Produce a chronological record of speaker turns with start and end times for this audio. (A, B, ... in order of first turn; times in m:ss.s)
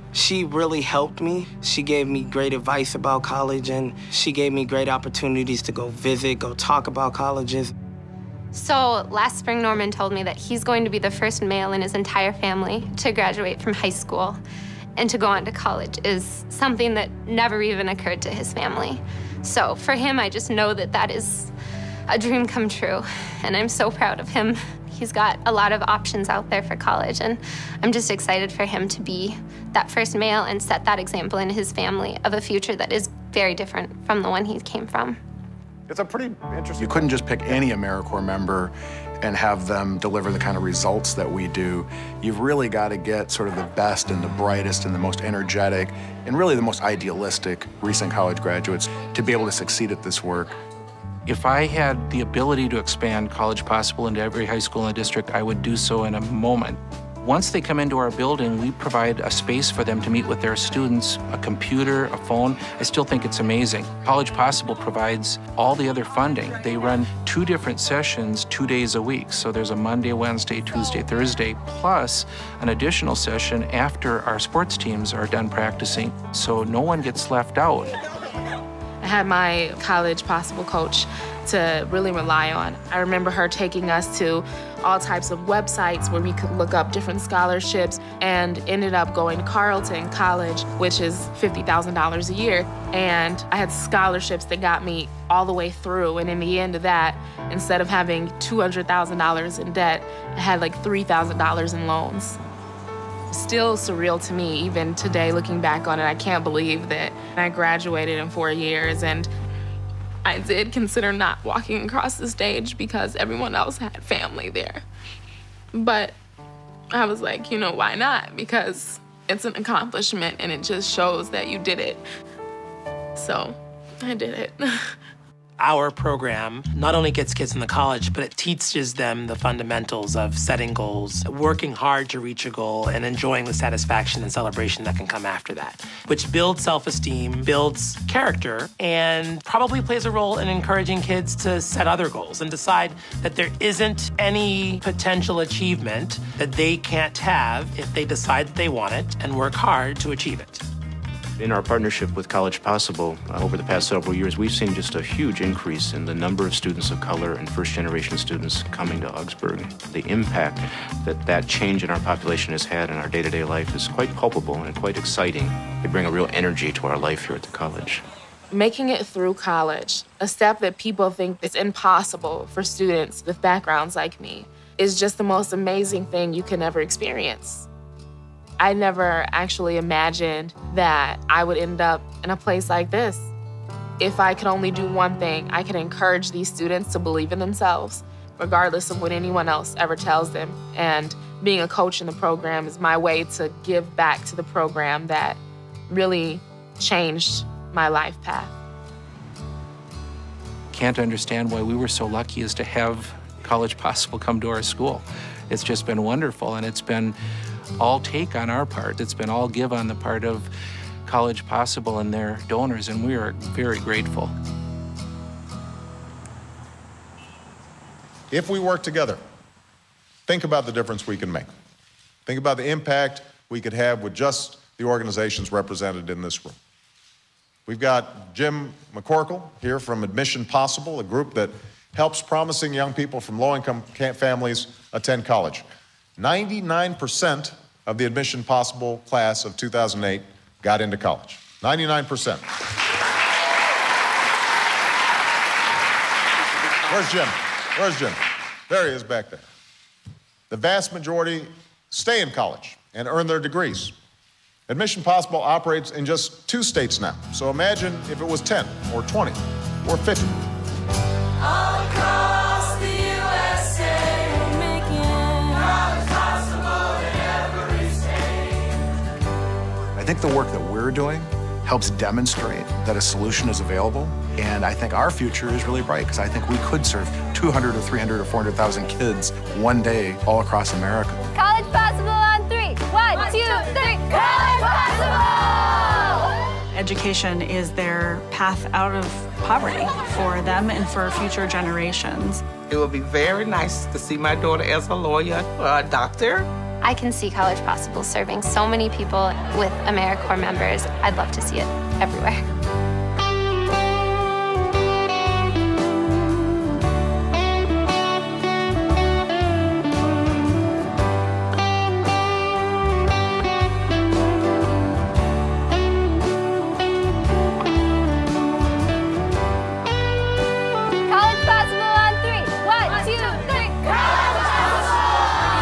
0:00.1-0:07.7 A
0:08.5-0:14.4 B
0:15.0-0:21.5 B
0:22.1-0:35.2 B
0:35.9-0:37.0 C
0:36.8-0:50.5 D
0:51.2-1:18.0 E
1:19.0-1:42.4 F
1:43.3-1:49.3 F
1:50.2-1:54.8 F
1:55.7-1:56.2 F
1:56.9-2:02.0 F
2:03.2-2:04.9 F
2:05.6-2:30.6 G
2:31.4-2:48.0 H
2:48.5-2:57.7 F
2:58.6-3:03.3 F
3:04.0-3:18.5 F
3:20.7-3:27.2 E
3:27.8-3:30.5 E
3:31.0-3:34.3 E
3:38.3-3:39.2 C
3:40.3-3:41.5 C
3:42.3-3:46.5 C
3:47.7-3:55.6 C
3:56.2-4:02.4 C
4:06.9-4:08.2 C
4:08.7-4:09.4 C
4:10.5-4:13.9 C
4:14.7-4:20.3 C
4:30.0-4:41.2 D
4:41.3-4:46.2 B
4:46.7-4:52.4 I
4:52.7-4:56.4 J
4:56.8-5:02.4 B
5:21.0-5:23.9 B